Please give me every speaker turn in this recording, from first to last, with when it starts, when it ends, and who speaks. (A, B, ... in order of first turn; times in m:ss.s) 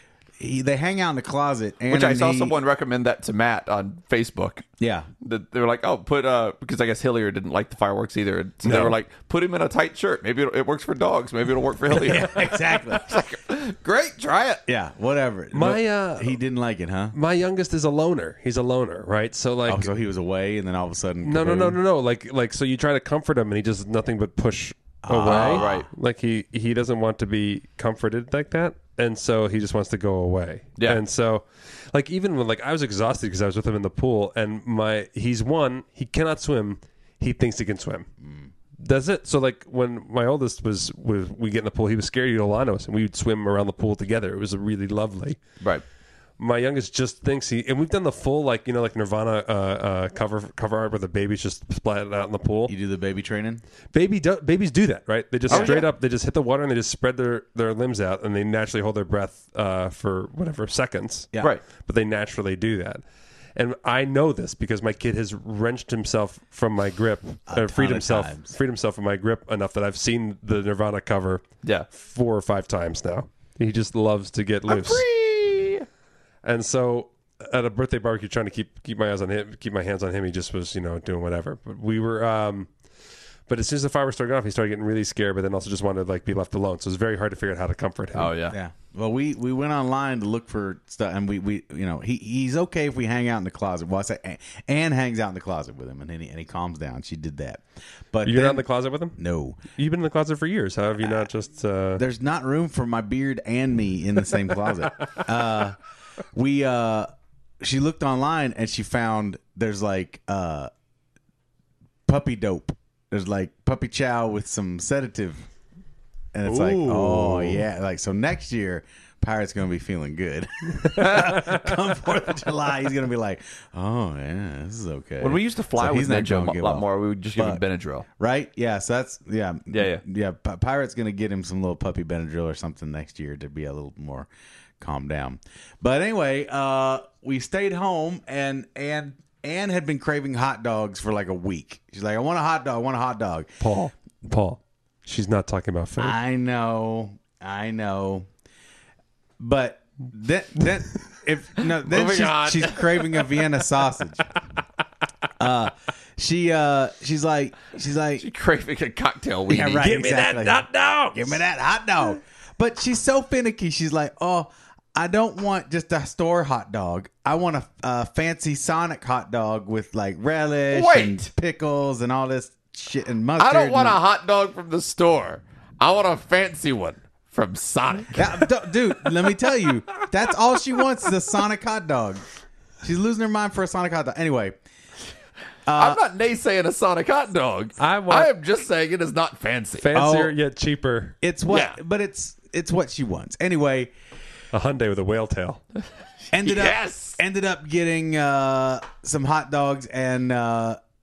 0:00.4-0:02.6 A
0:01.9-0:04.6 B
0:04.8-0:05.1 A
0:05.2-0:14.6 B
0:08.6-0:09.0 C
0:11.9-0:13.0 A
0:14.7-0:17.2 A
0:15.5-0:16.4 C
0:17.1-0:19.9 C
0:19.7-0:21.8 A
0:21.2-0:38.1 C
0:25.0-0:25.8 A
0:25.3-0:25.9 B
0:38.2-0:38.5 A
0:38.8-0:45.4 C
0:46.4-0:52.7 C
0:52.7-0:53.6 A
0:53.9-1:03.0 C
0:55.5-0:55.7 A
0:55.5-0:55.9 B
1:03.6-1:15.0 C
1:07.5-1:08.6 A
1:14.7-1:15.8 B
1:16.4-1:22.7 C
1:23.5-1:28.3 C
1:28.1-1:28.6 B
1:28.5-1:38.6 A
1:38.2-1:39.2 C
1:39.2-1:39.6 A
1:39.7-1:42.0 C
1:42.0-1:45.8 A
1:46.3-1:50.7 A
1:52.1-1:55.4 A
1:56.3-2:07.6 A
1:56.4-1:57.6 B
2:01.0-2:01.4 B
2:05.2-2:08.0 B
2:08.2-2:14.3 A
2:09.7-2:10.0 B
2:14.8-2:23.5 A
2:23.6-2:26.2 C
2:26.0-2:28.2 A
2:29.4-2:34.2 A
2:31.9-2:33.1 C
2:35.4-2:38.2 A
2:38.2-2:39.9 B
2:39.5-2:54.0 A
2:39.8-2:41.4 C
2:50.7-2:51.3 B
2:53.4-2:58.5 B
2:58.1-3:02.2 A
3:02.8-3:04.6 A
3:05.7-3:06.0 A
3:05.8-3:09.9 B
3:07.8-3:08.3 C
3:09.8-3:11.2 C
3:09.9-3:10.3 A
3:11.2-3:13.9 A
3:11.5-3:11.8 B
3:14.5-3:15.6 C
3:16.3-3:20.8 A
3:16.4-3:17.2 B